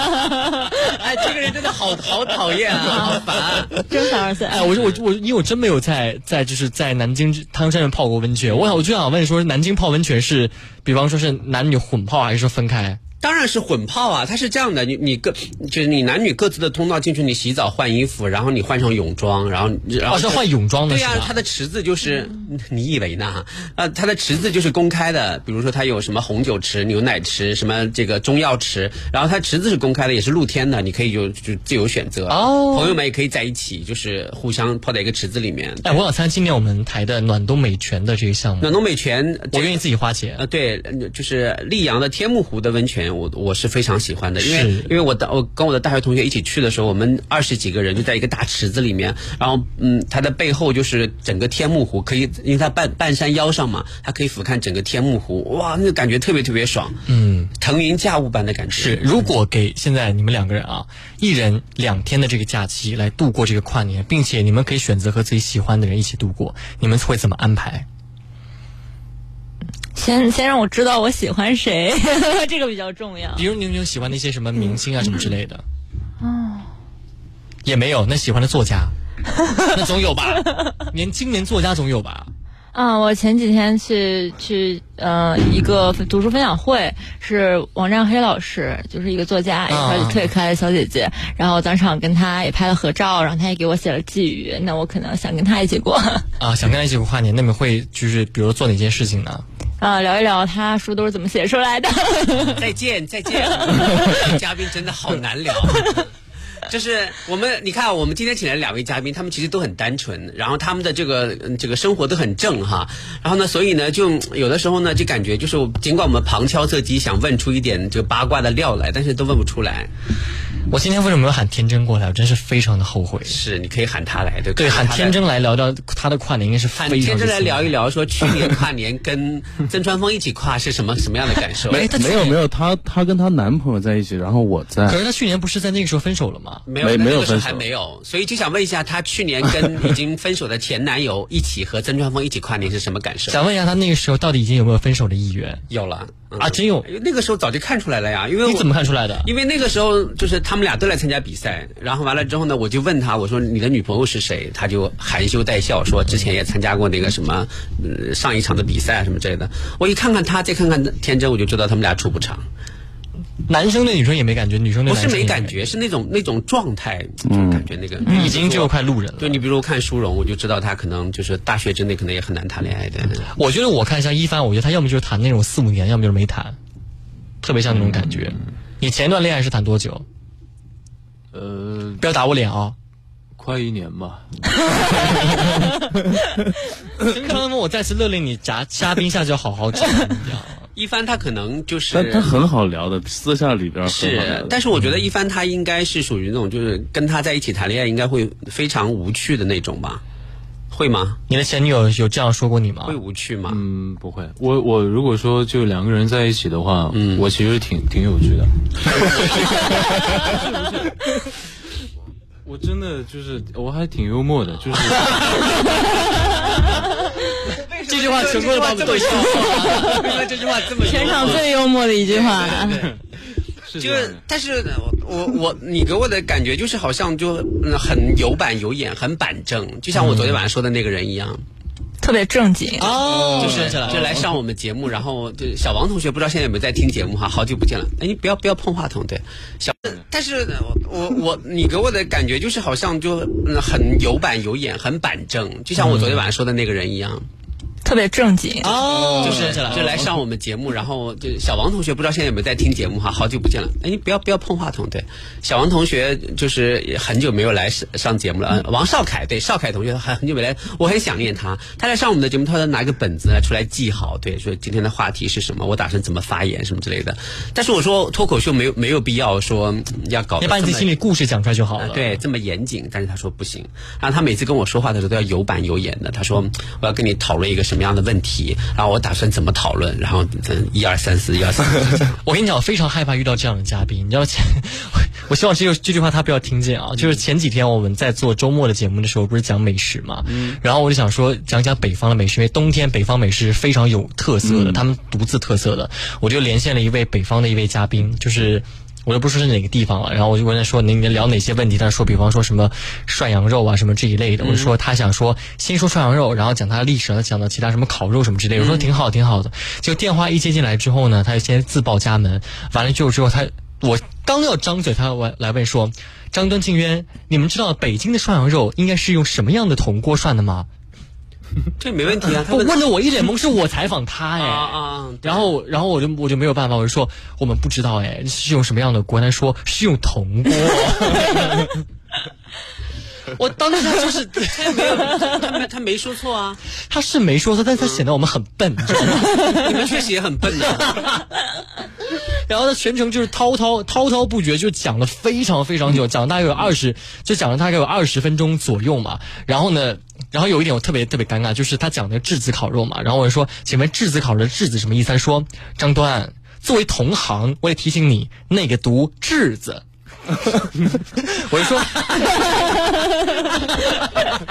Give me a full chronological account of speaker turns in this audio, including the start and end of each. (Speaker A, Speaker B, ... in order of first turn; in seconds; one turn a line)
Speaker A: 0.8-3.8
Speaker B: 3.8-4.7
Speaker C: 4.5-13.0
Speaker A: 4.7-5.0
Speaker A: 8.5-8.8
Speaker A: 13.2-36.0
Speaker C: 20.1-21.3
Speaker C: 32.3-33.0
Speaker C: 35.8-38.7
Speaker A: 38.6-39.8
Speaker C: 39.5-40.4
Speaker A: 40.4-57.0
Speaker C: 44.4-44.9
Speaker C: 57.1-57.5
Speaker A: 57.6-59.3
Speaker C: 58.7-67.8
Speaker B: 69.9-73.5
Speaker C: 73.3-75.6
Speaker B: 76.2-76.6
Speaker C: 77.6-78.9
Speaker C: 79.7-82.3
Speaker B: 82.7-96.2
Speaker C: 89.7-90.3
Speaker C: 96.4-99.4
Speaker B: 99.8-102.6
Speaker A: 102.5-106.1
Speaker A: 106.6-119.9
Speaker C: 120.7-123.4
Speaker A: 123.3-125.2
Speaker C: 124.5-127.7
Speaker A: 126.8-131.8
Speaker C: 131.7-132.4
Speaker D: 131.9-135.0
Speaker C: 134.9-136.6
Speaker A: 136.7-143.4
Speaker D: 136.8-137.6
Speaker C: 143.3-145.7
Speaker A: 145.7-148.7
Speaker C: 146.4-146.9
Speaker C: 148.4-149.3
Speaker A: 149.2-162.4
Speaker C: 163.5-165.6
Speaker A: 164.9-173.3
Speaker D: 167.2-167.7
Speaker B: 168.0-168.3
Speaker C: 168.1-169.4
Speaker C: 173.3-176.6
Speaker C: 177.4-180.0
Speaker E: 181.3-182.0
Speaker C: 182.0-182.8
Speaker E: 183.4-184.3
Speaker C: 187.0-190.7
Speaker A: 190.7-192.4
Speaker D: 191.9-194.6
Speaker A: 193.8-200.0
Speaker A: 200.7-201.2
Speaker C: 201.3-203.0
Speaker A: 202.8-203.6
Speaker E: 203.5-208.5
Speaker A: 206.9-207.3
Speaker E: 210.2-211.1
Speaker E: 212.4-215.6
Speaker A: 217.4-221.5
Speaker C: 217.9-220.1
Speaker B: 220.8-222.8
Speaker A: 222.1-223.0
Speaker E: 223.7-224.2
Speaker A: 223.8-231.4
Speaker C: 229.9-230.3
Speaker B: 232.0-232.9
Speaker C: 232.8-234.2
Speaker A: 233.1-247.2
Speaker D: 233.4-234.1
Speaker C: 245.8-246.3
Speaker B: 247.8-248.7
Speaker C: 248.6-250.0
Speaker A: 249.1-270.9
Speaker C: 270.4-272.2
Speaker A: 271.8-282.2
Speaker C: 282.2-320.7
Speaker A: 290.3-290.6
Speaker D: 294.4-294.8
Speaker A: 304.4-304.7
Speaker A: 308.6-308.9
Speaker A: 321.8-322.8
Speaker C: 322.5-331.8
Speaker A: 324.4-325.5
Speaker C: 333.3-335.3
Speaker A: 334.4-336.6
Speaker C: 336.8-339.4
Speaker A: 337.8-338.0
Speaker A: 339.5-341.0
Speaker C: 340.7-341.0
Speaker C: 342.4-359.8
Speaker C: 360.4-364.2